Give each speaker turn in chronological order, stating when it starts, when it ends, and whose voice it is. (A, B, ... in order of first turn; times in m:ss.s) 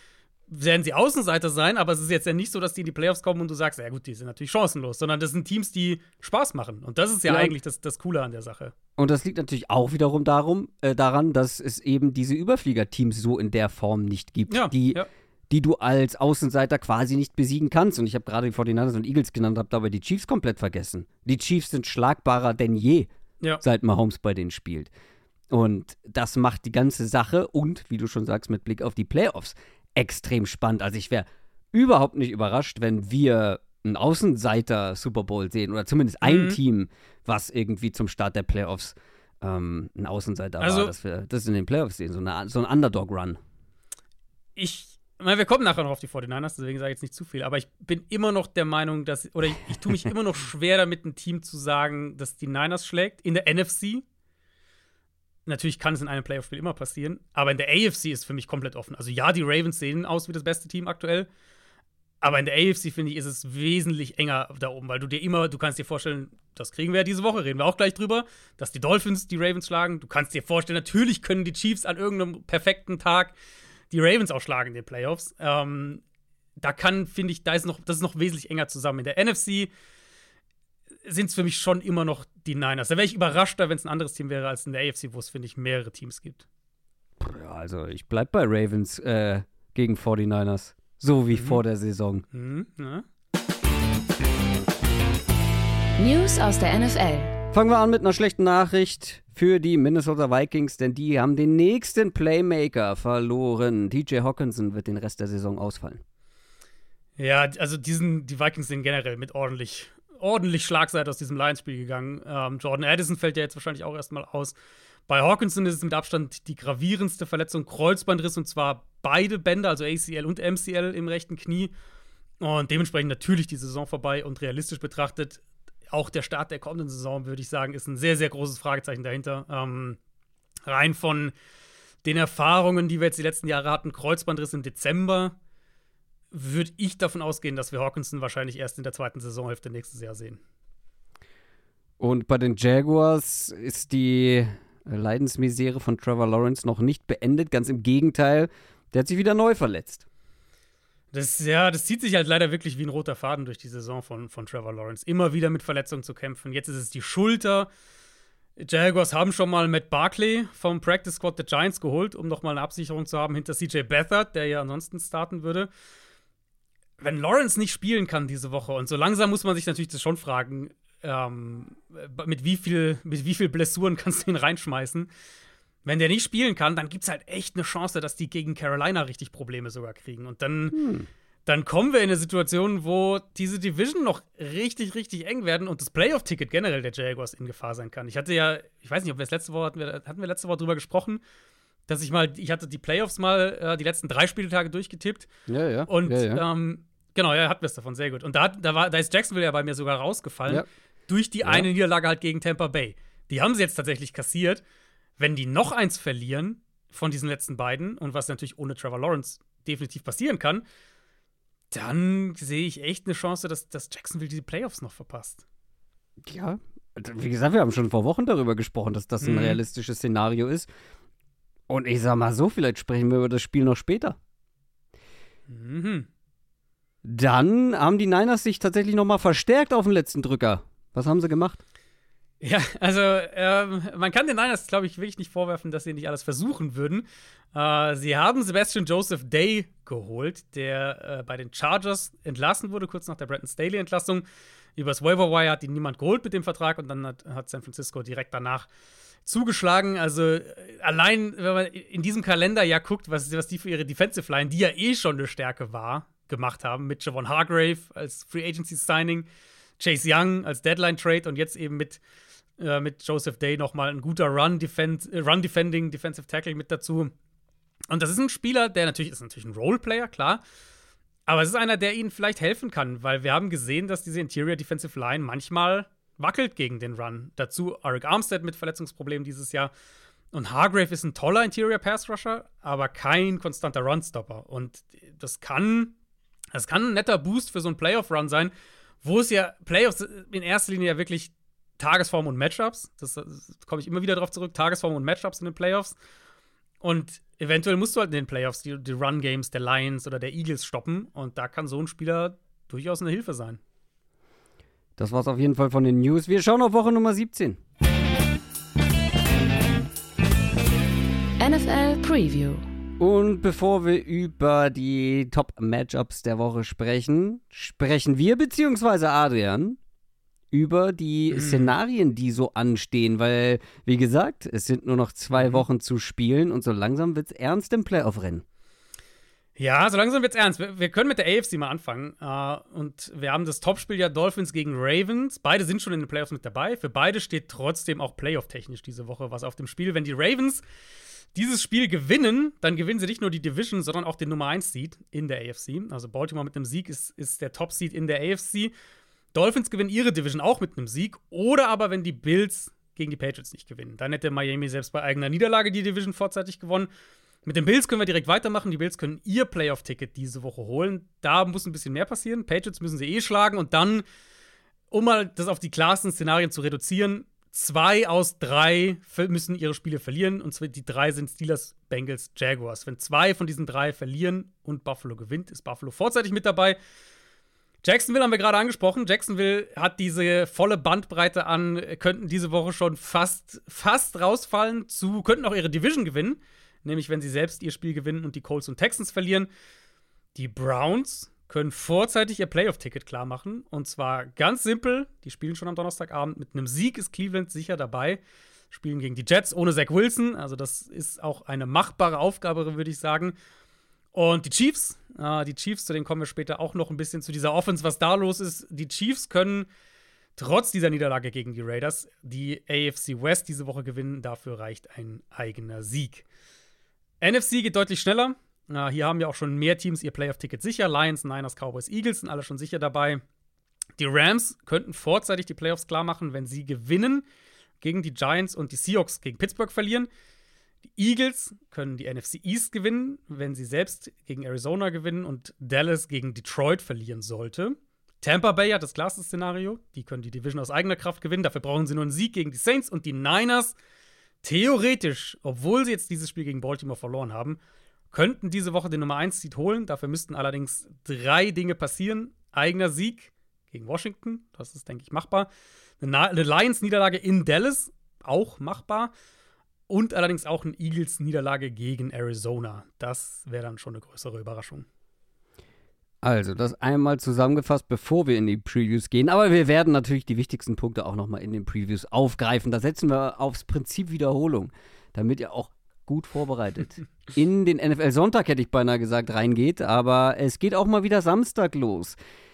0:00.5-0:08.8 A
0:07.3-0:07.6 B
0:09.0-0:23.1 B
0:14.5-0:15.1 A
0:23.6-0:24.9 B
0:25.5-0:43.4 B
0:36.2-0:36.6 A
0:40.6-0:40.9 A
0:44.6-0:54.0 A
0:55.5-1:01.3 A
1:02.2-1:13.3 A
1:13.9-1:16.0 A
1:16.6-1:19.7 A
1:21.1-1:26.4 A
1:27.2-1:32.2 B
1:31.3-1:31.6 A
1:32.3-1:33.0 A
1:36.0-1:37.4 C
1:37.5-1:46.0 B
1:47.2-1:54.6 A
1:55.1-2:01.7 A
2:02.4-2:10.0 A
2:10.7-2:11.3 A
2:12.0-2:15.4 A
2:16.3-2:20.4 A
2:22.0-2:30.0 B
2:31.1-2:37.7 A
2:38.6-2:45.7 A
2:47.0-2:55.1 A
2:55.8-3:00.8 A
3:00.7-3:01.1 B
3:01.5-3:11.2 A
3:11.9-3:15.3 A
3:15.5-3:16.4 B
3:15.9-3:24.6 A
3:21.4-3:21.7 B
3:25.2-3:30.6 A
3:31.7-3:35.4 A
3:36.2-3:40.7 B
3:39.2-3:39.6 A
3:41.7-3:44.2 B
3:45.5-3:46.1 A
3:47.0-3:51.6 B
3:52.4-4:04.2 A
4:04.8-4:08.7 A
4:09.3-4:19.3 A
4:19.8-4:22.0 A
4:22.6-4:27.1 A
4:27.9-4:30.4 A
4:31.3-4:39.7 A
4:40.3-4:46.0 A
4:46.5-4:48.5 A
4:49.0-4:56.0 A
4:56.8-5:03.6 A
5:05.0-5:07.6 B
5:11.4-5:12.6 C
5:13.0-5:19.8 B
5:20.5-5:28.4 B
5:21.3-5:21.8 A
5:25.3-5:25.6 A
5:29.6-5:40.6 A
5:41.4-5:48.7 A
5:49.3-5:56.9 A
5:57.4-6:04.0 A
6:04.9-6:16.8 A
6:17.8-6:29.5 A
6:30.4-6:38.2 A
6:38.7-6:43.4 A
6:44.1-6:49.7 A
6:50.4-6:56.3 A
6:57.2-7:03.2 A
7:04.0-7:07.2 A
7:07.8-7:10.1 A
7:11.0-7:23.8 A
7:24.4-7:27.6 A
7:28.1-7:35.5 A
7:36.0-7:39.1 A
7:39.9-7:44.9 A
7:46.2-8:02.2 B